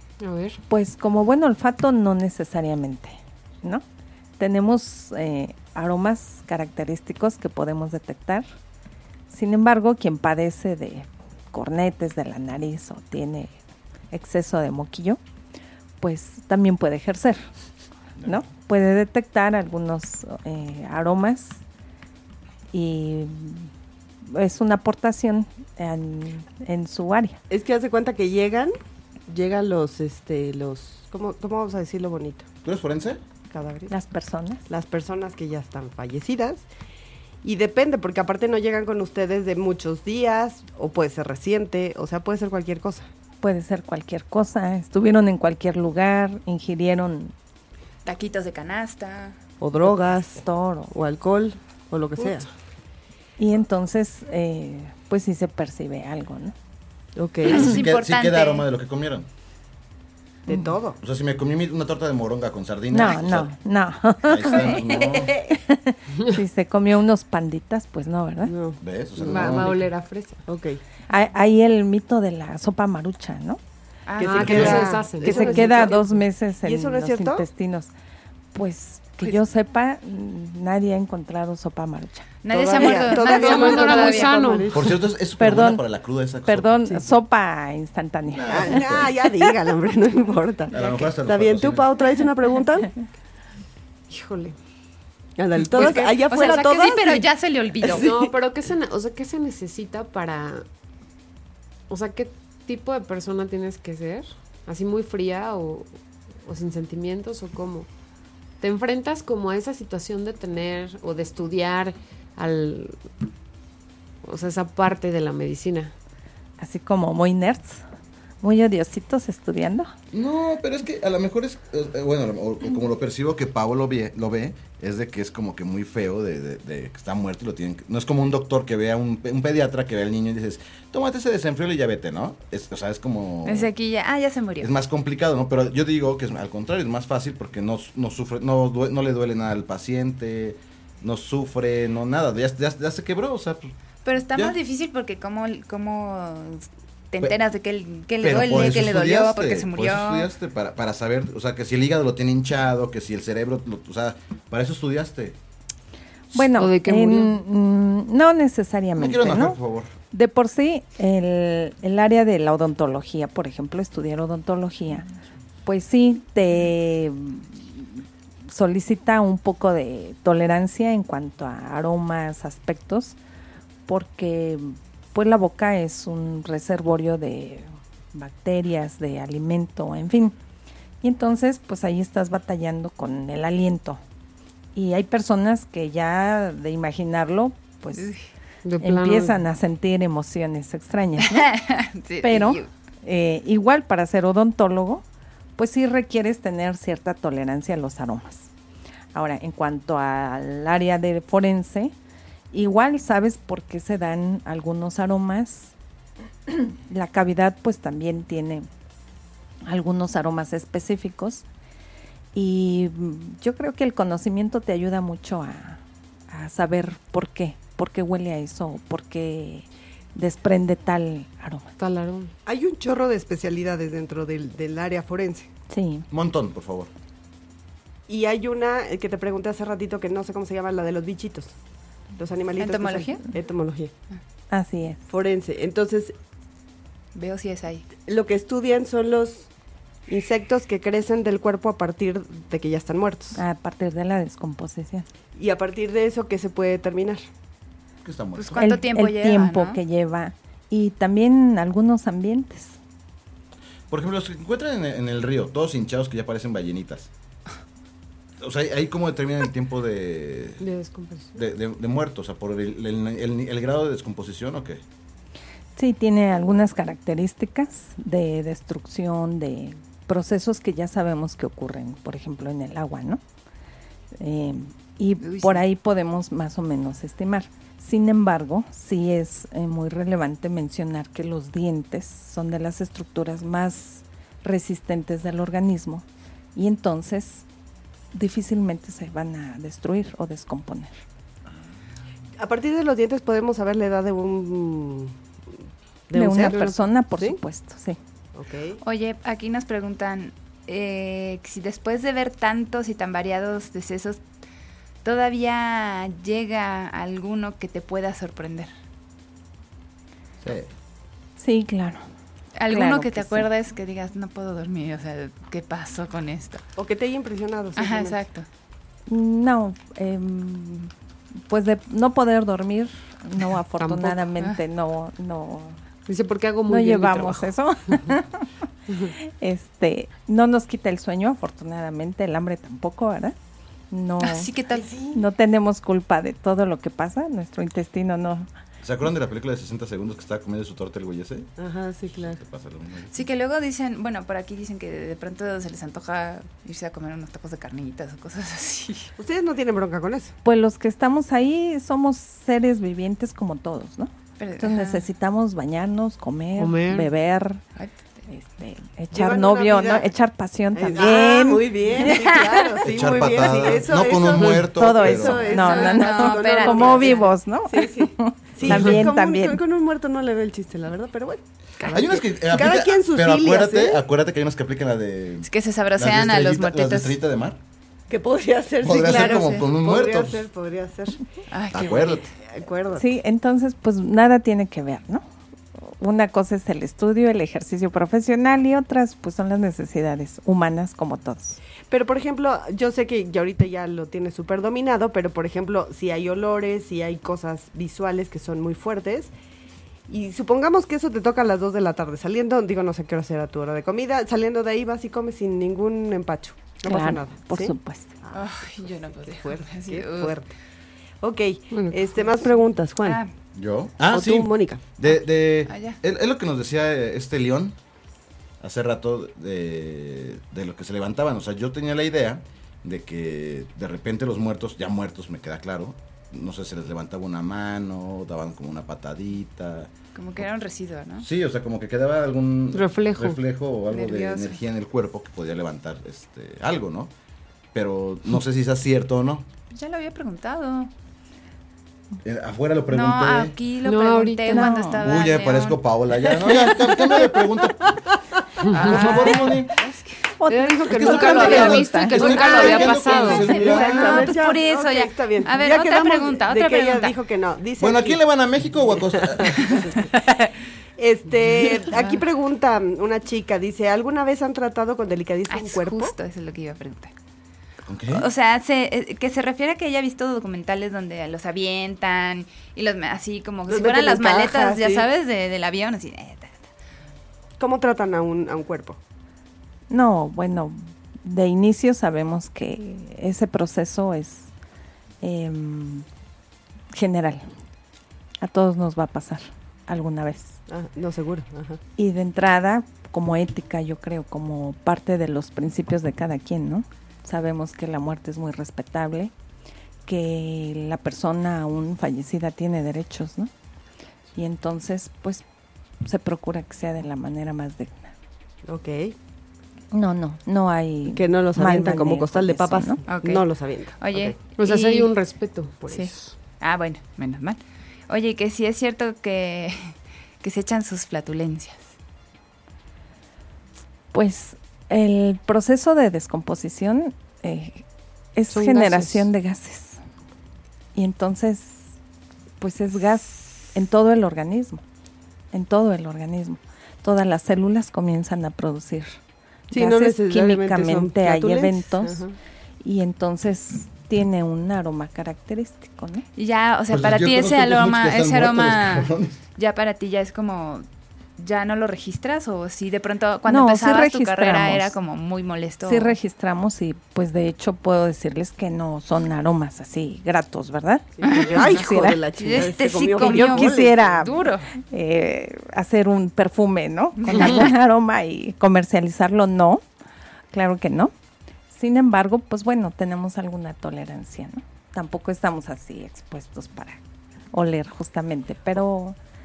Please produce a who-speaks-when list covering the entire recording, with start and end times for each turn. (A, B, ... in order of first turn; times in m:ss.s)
0:00.2-0:00.6 A
0:00.7-0:03.8 B
0:04.4-0:08.4 B
0:09.3-0:13.6 B
0:14.1-0:15.2 B
0:16.0-0:17.4 B
0:18.2-0:21.6 B
0:22.7-0:23.7 B
0:24.2-0:27.4 B
0:27.5-0:28.7 C
0:29.3-0:32.5 C
0:32.6-0:33.2 D
0:33.5-0:33.9 C
0:33.9-0:34.6 B
0:34.7-0:36.6 C
0:37.4-0:43.1 C
0:43.4-0:47.3 B
0:48.0-0:49.4 E
0:49.6-0:52.5 C
0:50.4-0:50.9 B
0:53.4-0:56.5 B
0:57.2-0:57.7 C
0:57.4-0:58.6 E
0:57.4-0:59.3 D
1:00.5-1:01.0 C
1:01.0-1:03.5 D
1:02.9-1:08.5 B
1:04.2-1:05.4 D
1:04.5-1:04.8 E
1:08.4-1:09.7 C
1:08.8-1:09.8 D
1:09.2-1:10.4 A
1:10.5-1:10.8 C
1:11.1-1:13.6 B
1:14.0-1:14.9 E
1:14.2-1:17.4 C
1:14.2-1:15.9 A
1:14.4-1:14.8 D
1:15.2-1:17.9 B
1:18.5-1:22.3 B
1:22.4-1:24.5 E
1:22.5-1:25.0 C
1:23.1-1:24.7 A
1:24.7-1:26.9 D
1:25.4-1:25.8 B
1:26.4-1:28.8 B
1:28.3-1:29.1 D
1:28.5-1:32.9 C
1:30.7-1:31.9 D
1:34.1-1:34.6 A
1:35.4-1:37.3 C
1:35.7-1:38.0 E
1:37.8-1:38.3 C
1:38.0-1:40.6 A
1:41.9-1:47.9 A
1:48.6-1:53.1 A
1:54.2-1:55.9 A
1:56.6-1:57.8 B
1:58.4-1:59.9 B
2:00.1-2:13.7 D
2:13.4-2:14.7 E
2:14.6-2:23.7 D
2:24.0-2:30.3 E
2:28.2-2:35.4 D
2:36.3-2:39.6 B
2:36.5-2:37.4 A
2:39.0-2:39.9 D
2:40.1-2:45.1 B
2:45.6-2:53.2 B
2:53.9-3:00.3 B
3:01.0-3:04.0 B
3:04.7-3:08.1 B
3:07.9-3:08.2 E
3:08.6-3:09.4 A
3:08.8-3:11.5 B
3:11.2-3:12.7 E
3:12.2-3:15.0 B
3:15.6-3:18.5 B
3:19.1-3:21.9 B
3:22.5-3:25.7 B
3:26.5-3:28.7 B
3:29.6-3:31.4 B
3:32.3-3:41.7 B
3:41.8-3:42.3 A
3:42.4-3:45.5 C
3:45.7-3:46.1 B
3:46.1-3:46.9 D
3:48.1-3:51.5 C
3:52.2-3:53.9 C
3:52.6-3:53.2 E
3:54.5-3:55.0 B
3:55.1-3:56.1 C
3:57.1-3:57.8 E
3:58.0-3:59.5 C
4:00.1-4:03.4 C
4:03.3-4:05.0 B
4:05.4-4:07.2 C
4:08.0-4:08.6 D
4:08.4-4:09.8 E
4:08.6-4:12.8 B
4:13.9-4:17.1 D
4:18.4-4:20.6 D
4:20.6-4:21.3 A
4:21.3-4:24.8 D
4:25.8-4:33.2 B
4:34.1-4:47.4 B
4:35.2-4:35.6 E
4:48.1-4:50.9 B
4:52.4-4:55.1 C
4:56.1-4:57.4 C
4:56.1-4:58.0 B
4:58.3-4:58.8 C
4:58.8-5:04.2 E
5:05.0-5:08.7 E
5:10.4-5:10.7 D
5:11.4-5:12.0 B
5:12.6-5:16.6 E
5:12.7-5:13.5 B
5:16.8-5:18.2 C
5:17.8-5:18.5 E
5:19.1-5:20.9 B
5:21.5-5:25.8 B
5:23.8-5:24.2 A
5:26.1-5:27.5 A
5:26.7-5:28.5 B
5:29.1-5:33.4 B
5:33.9-5:34.5 B
5:34.2-5:34.9 E
5:34.7-5:35.2 C
5:35.1-5:38.5 B
5:38.8-5:41.5 D
5:41.6-5:42.4 C
5:42.1-5:43.3 D
5:43.1-5:49.1 E
5:49.2-5:50.3 C
5:50.4-5:57.6 B
5:54.4-5:55.0 E
5:56.6-5:57.1 A
5:58.3-6:02.1 B
5:59.1-6:00.1 C
6:00.7-6:14.0 C
6:02.1-6:02.6 E
6:02.8-6:05.5 D
6:04.6-6:09.6 B
6:05.5-6:07.3 E
6:11.9-6:17.6 D
6:15.4-6:17.2 E
6:18.1-6:21.2 C
6:18.8-6:20.4 D
6:19.2-6:19.6 E
6:21.5-6:22.3 E
6:21.7-6:22.3 D
6:22.5-6:23.1 C
6:23.0-6:25.2 B
6:25.8-6:31.6 B
6:31.9-6:39.3 C
6:40.1-6:50.5 C
6:46.8-6:48.1 B
6:48.3-6:50.4 E
6:51.2-6:53.2 C
6:51.7-6:52.1 A
6:53.0-6:53.3 E
6:53.5-6:57.8 D
6:54.1-6:54.8 C
6:55.6-6:56.0 E
6:58.6-7:10.4 D
7:10.1-7:11.2 E
7:11.2-7:17.1 D
7:12.7-7:13.4 A
7:13.9-7:14.6 E
7:17.7-7:19.5 D
7:19.7-7:20.9 E
7:22.2-7:23.6 D
7:22.9-7:25.8 E
7:23.8-7:24.8 A
7:24.5-7:25.0 B
7:25.0-7:28.0 D
7:28.7-7:29.2 A
7:28.7-7:30.2 E
7:28.8-7:29.7 D
7:30.4-7:32.2 B
7:30.5-7:33.5 A
7:30.9-7:34.3 D
7:31.1-7:37.2 E
7:32.5-7:38.2 C
7:37.8-7:39.9 D
7:39.1-7:40.1 C
7:39.8-7:40.5 E
7:41.0-7:46.1 C
7:41.9-7:42.2 E
7:45.5-7:47.1 E
7:47.8-7:48.3 D
7:48.1-7:56.7 E
7:53.7-7:55.1 C
7:57.6-7:59.0 C
7:59.9-8:04.5 B
8:05.2-8:06.0 B
8:06.9-8:07.4 B
8:08.4-8:10.6 B
8:10.7-8:11.8 C
8:12.0-8:19.3 B
8:20.0-8:23.5 B
8:24.4-8:25.4 B
8:26.0-8:28.1 B
8:28.6-8:29.1 C
8:29.9-8:33.0 B
8:31.1-8:34.4 C
8:33.1-8:35.1 E
8:34.5-8:36.2 A
8:35.9-8:41.9 E
8:44.1-8:47.8 B
8:48.3-8:50.0 B
8:48.5-8:49.3 A
8:50.9-8:51.9 B
8:52.6-8:54.8 B
8:55.5-8:59.2 B
8:59.7-9:02.2 B
8:59.7-9:02.3 C
9:02.8-9:06.2 B
9:06.4-9:16.2 E
9:06.9-9:09.4 D
9:13.5-9:14.9 B
9:15.8-9:22.2 B
9:21.2-9:24.1 C
9:21.2-9:21.8 E
9:22.4-9:24.7 E
9:23.2-9:29.8 B
9:27.2-9:27.7 E
9:30.5-9:31.1 B
9:31.7-9:37.0 B
9:37.5-9:39.2 B